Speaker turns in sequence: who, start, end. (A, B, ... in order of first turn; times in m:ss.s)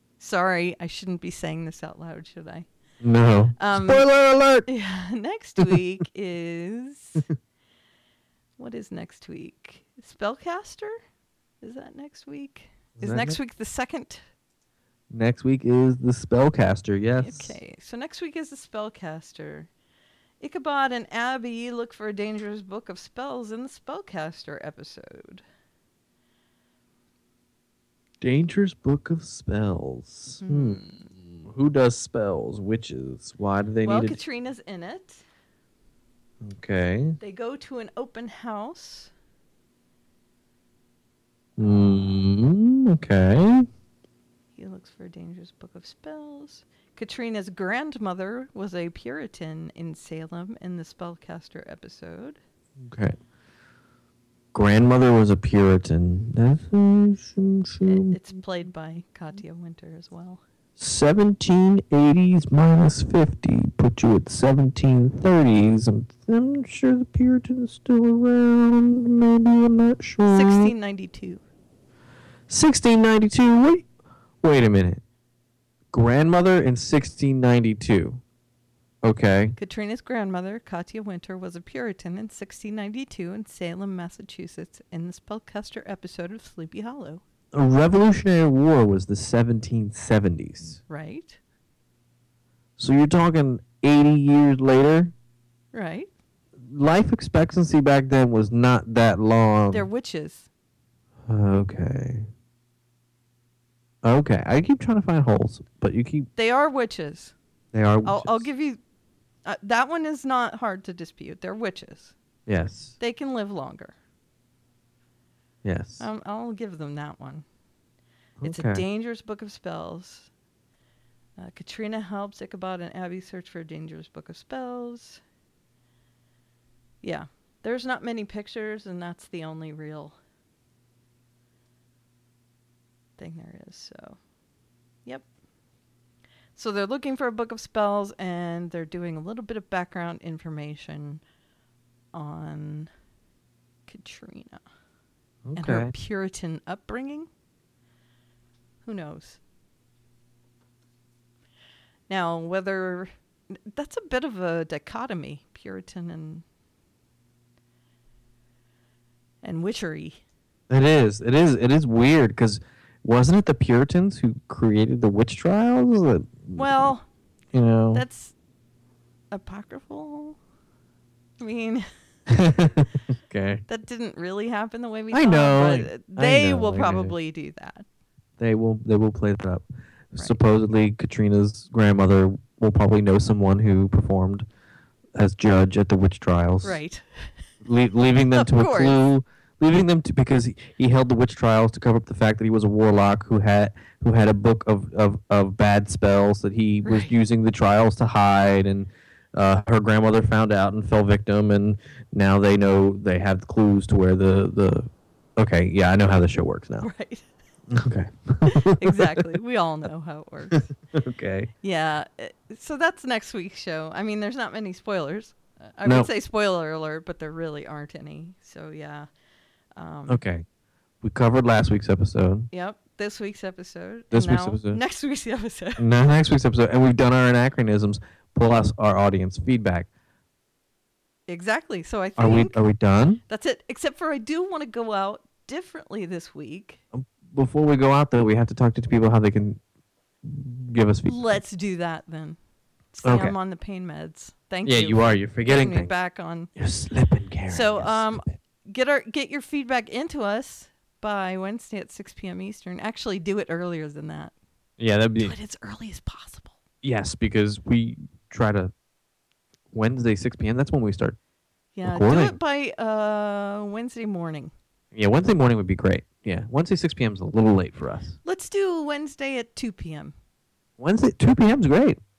0:00.2-0:02.7 A
0:03.0-0:04.7 B
0:03.6-0:04.0 A
0:04.6-0:07.2 A
0:08.6-0:10.9 A
0:11.6-0:14.2 A
0:13.0-0:13.4 B
0:15.1-0:17.6 B
0:17.2-0:19.7 A
0:20.4-0:25.4 A
0:28.2-0:30.8 B
0:30.4-0:31.1 A
0:31.4-0:34.2 B
0:33.8-0:35.2 A
0:36.4-0:37.2 B
0:37.2-0:39.1 A
0:41.6-0:43.6 B
0:41.6-0:42.1 A
0:44.6-0:52.4 A
0:52.8-0:53.2 B
0:54.5-0:58.2 B
0:57.8-1:00.4 A
1:00.8-1:10.7 B
1:10.2-1:11.4 A
1:12.5-1:13.8 B
1:14.4-1:15.0 B
1:15.9-1:18.2 B
1:19.0-1:19.6 B
1:19.6-1:27.2 A
1:27.5-1:30.8 B
1:30.9-1:31.4 A
1:32.8-1:35.1 B
1:35.7-1:36.1 A
1:36.6-1:39.9 B
1:39.7-1:40.5 A
1:41.3-1:42.3 B
1:44.0-1:46.3 B
1:46.4-1:47.3 A
1:47.7-1:48.4 B
1:48.0-1:48.8 A
1:49.4-1:52.1 A
1:52.5-1:52.9 B
1:53.0-1:53.9 A
1:55.6-1:56.0 B
1:56.0-1:57.4 A
1:58.4-1:58.8 B
1:58.4-2:00.3 A
2:01.4-2:05.2 A
2:07.0-2:10.2 A
2:13.2-2:14.2 A
2:16.6-2:21.2 A
2:22.1-2:22.9 A
2:23.9-2:24.6 A
2:25.4-2:25.9 B
2:25.5-2:27.3 A
2:28.8-2:29.4 A
2:32.1-2:36.4 A
2:39.4-2:40.2 A
2:40.7-2:46.8 B
2:46.5-2:47.0 A
2:47.5-2:48.0 B
2:47.9-2:48.3 A
2:49.3-2:50.4 A
2:51.4-2:51.8 A
2:52.3-2:53.6 B
2:53.7-2:57.8 A
2:55.1-2:57.2 B
2:58.4-3:04.4 B
3:05.2-3:06.8 B
3:06.6-3:07.3 A
3:07.6-3:26.9 B
3:08.3-3:09.0 A
3:16.8-3:17.1 A
3:26.8-3:27.2 A
3:27.7-3:29.3 B
3:28.4-3:30.7 A
3:30.5-3:31.5 B
3:31.6-3:39.1 A
3:35.8-3:36.1 B
3:39.8-3:40.2 A
3:40.1-3:40.4 B
3:41.0-3:42.5 B
3:42.5-3:45.8 A
3:44.1-3:44.8 B
3:45.8-3:49.9 B
3:51.3-3:52.6 A
3:52.2-3:53.2 B
3:53.3-3:56.8 A
3:56.9-3:59.6 B
4:00.2-4:01.4 B
4:01.0-4:02.4 A
4:02.9-4:06.5 A
4:03.0-4:03.4 B
4:04.6-4:05.9 B
4:06.5-4:08.3 B
4:07.5-4:14.3 A
4:14.8-4:15.3 B
4:15.2-4:16.5 A
4:16.8-4:18.7 B
4:19.7-4:21.2 B
4:21.7-4:24.5 A
4:21.8-4:22.4 B
4:24.9-4:28.2 B
4:28.2-4:30.1 A
4:30.8-4:32.0 B